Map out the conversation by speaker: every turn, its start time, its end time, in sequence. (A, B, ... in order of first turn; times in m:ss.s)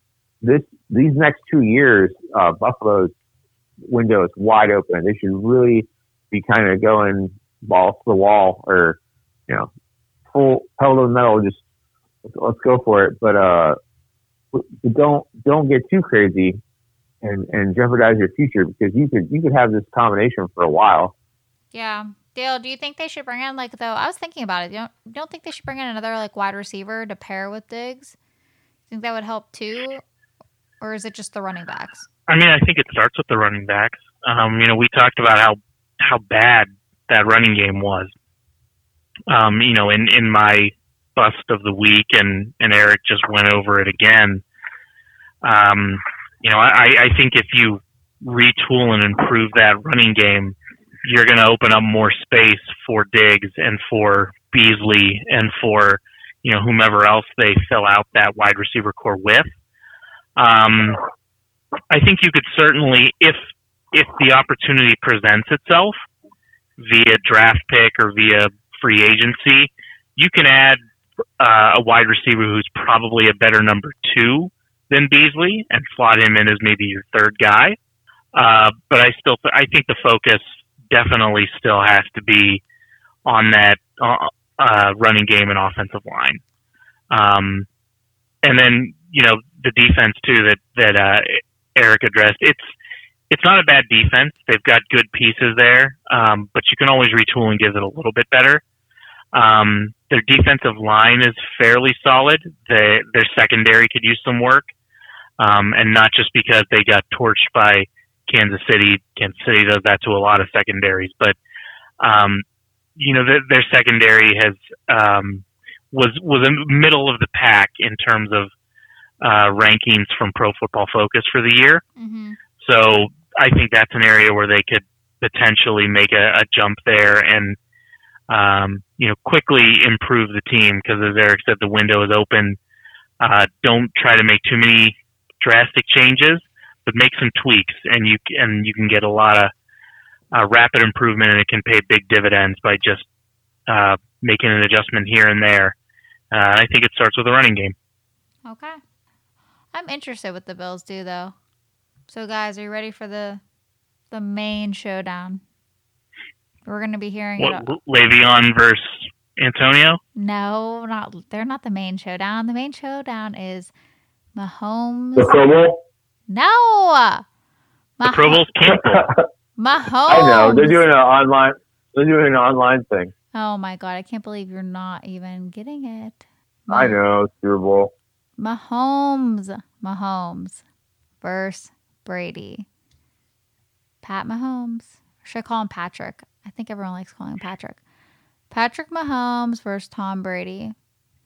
0:00.4-0:03.1 A
0:03.8-0:09.7 A
0:10.3-0:11.6 A
0:12.2-0:13.8 A
0:14.5-0:16.6 A
0:17.2-0:21.1 A
0:21.7-0:28.2 B
0:28.9-0:30.0 B
0:30.8-0:32.1 B
0:32.3-0:38.1 C
0:39.3-0:44.4 C
0:45.4-0:59.5 C
1:00.4-1:01.0 C
1:01.9-1:03.4 C
1:03.9-1:06.0 C
1:06.8-1:10.8 C
1:11.4-1:17.8 C
1:18.3-1:22.6 C
1:23.2-1:26.4 C
1:27.1-1:27.6 C
1:28.4-1:32.7 C
1:33.3-1:38.6 C
1:39.3-1:44.7 C
1:45.4-1:51.4 C
1:52.0-1:52.4 C
1:53.0-1:58.5 C
1:59.2-2:01.8 C
2:02.0-2:02.4 B
2:02.6-2:07.6 C
2:08.3-2:12.6 C
2:13.2-2:19.5 C
2:20.3-2:23.0 C
2:23.7-2:25.8 C
2:26.3-2:27.7 C
2:28.4-2:28.8 B
2:29.7-2:31.3 B
2:32.1-2:33.4 B
2:34.1-2:35.4 B
2:36.6-2:37.7 B
2:37.4-2:40.0 C
2:40.2-2:43.7 B
2:44.4-2:45.4 B
2:45.2-2:45.8 A
2:46.3-2:47.2 B
2:48.0-2:48.4 B
2:48.0-2:49.1 C
2:49.6-2:50.9 B
2:50.1-2:53.1 A
2:53.3-2:57.0 B
2:56.7-2:57.9 A
2:58.4-3:00.6 B
3:01.2-3:02.7 B
3:04.0-3:07.8 B
3:08.5-3:10.7 B